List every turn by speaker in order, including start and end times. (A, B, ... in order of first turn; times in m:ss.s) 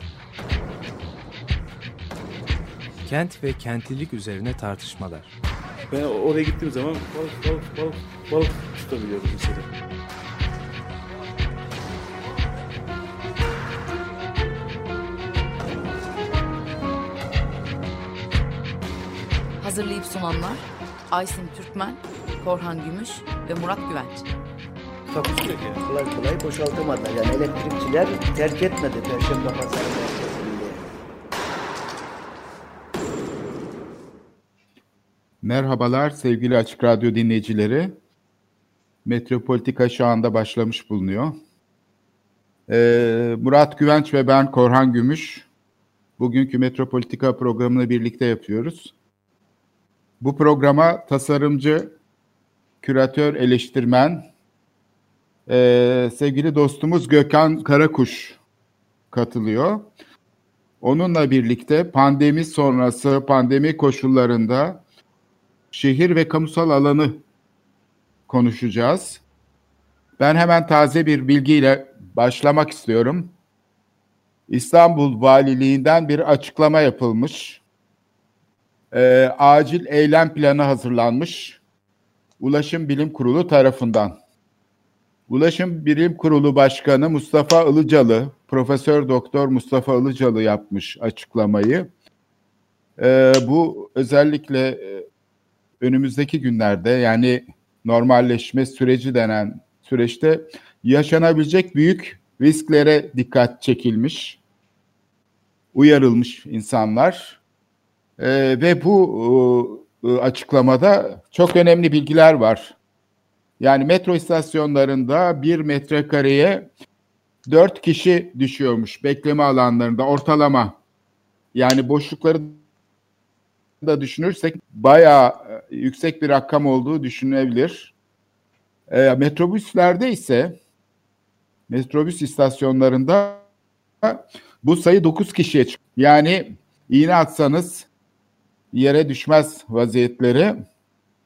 0:03.0-0:05.3 A
0:05.9-0:09.7 B
0:19.6-0:24.3 C
0:25.1-0:25.8 B
0:25.8-0:31.0 D
0:35.4-0:38.0 E
0:39.0-0:41.4 E
0:42.7-0:45.4 E
0:46.2-0:48.9 E
0:50.2-0:51.9 E
0:52.8-0:54.3 E
0:55.5-0:58.4 E
0:59.1-0:59.9 E
1:00.8-1:04.8 E
1:05.7-1:07.2 E
1:08.3-1:09.2 E
1:10.2-1:13.3 E
1:14.5-1:17.6 E
1:18.9-1:21.6 E
1:22.4-1:24.2 E
1:25.3-1:31.9 E
1:33.0-1:35.0 E
1:35.8-1:44.4 E
1:45.7-1:47.4 E
1:48.2-1:52.8 E
1:53.6-1:56.7 E
1:57.4-2:00.8 E
2:01.5-2:02.6 E
2:03.8-2:07.9 E
2:08.9-2:10.6 E
2:11.7-2:13.4 E
2:14.0-2:17.9 E
2:18.7-2:20.6 E